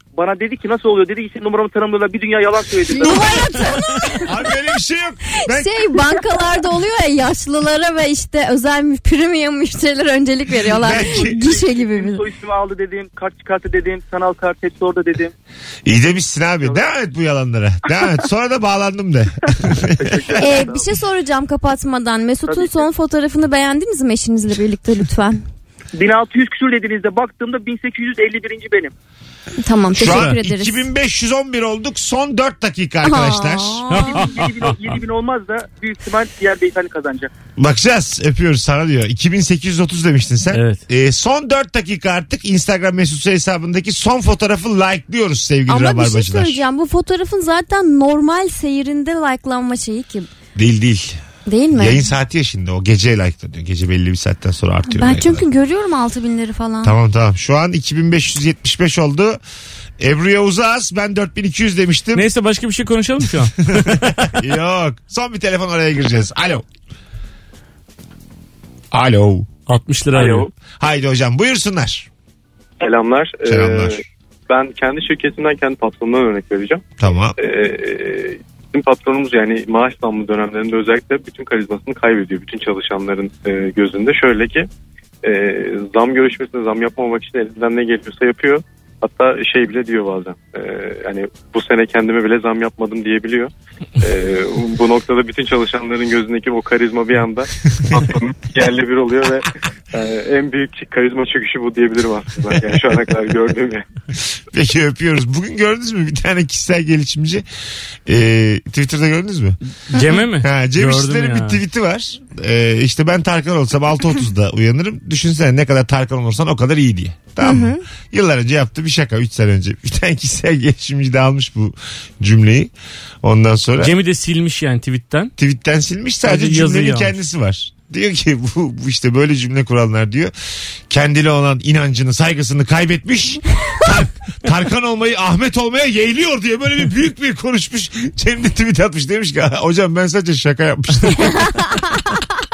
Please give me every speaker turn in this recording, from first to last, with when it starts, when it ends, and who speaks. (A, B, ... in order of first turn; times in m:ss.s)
0:00.2-0:03.4 A
0:02.9-0:04.4 B
0:04.2-0:05.8 C
0:05.4-0:12.2 B
0:10.6-0:11.4 C
0:10.9-0:15.3 A
0:15.9-0:20.4 C
0:20.0-0:20.9 A
0:20.4-0:25.4 B
0:22.5-0:22.8 A
0:25.9-0:28.9 A
0:29.6-0:30.9 B
0:29.9-0:33.9 C
0:30.0-0:30.4 D
0:33.0-0:34.2 B
0:33.9-0:34.9 D
0:34.0-0:37.3 A
0:37.6-0:46.6 C
0:40.5-0:40.8 D
0:45.7-0:50.3 B
0:50.5-0:51.2 C
0:51.5-0:52.0 B
0:51.7-0:55.5 C
0:54.9-0:57.0 B
0:56.8-0:59.4 C
1:00.0-1:02.2 C
1:02.1-1:04.3 D
1:03.7-1:06.6 C
1:08.9-1:09.5 C
1:09.7-1:10.5 D
1:10.1-1:10.5 E
1:10.8-1:12.1 C
1:12.8-1:16.9 E
1:13.4-1:14.0 C
1:17.0-1:17.4 C
1:17.4-1:24.7 E
1:25.2-1:43.8 E
1:44.5-1:47.4 C
1:48.0-1:49.6 C
1:49.9-1:51.6 D
1:49.9-1:50.2 B
1:50.4-2:02.7 C
1:57.4-1:57.8 B
2:03.2-2:04.0 C
2:03.8-2:05.3 D
2:05.4-2:10.3 C
2:06.2-2:07.2 D
2:10.9-2:21.8 C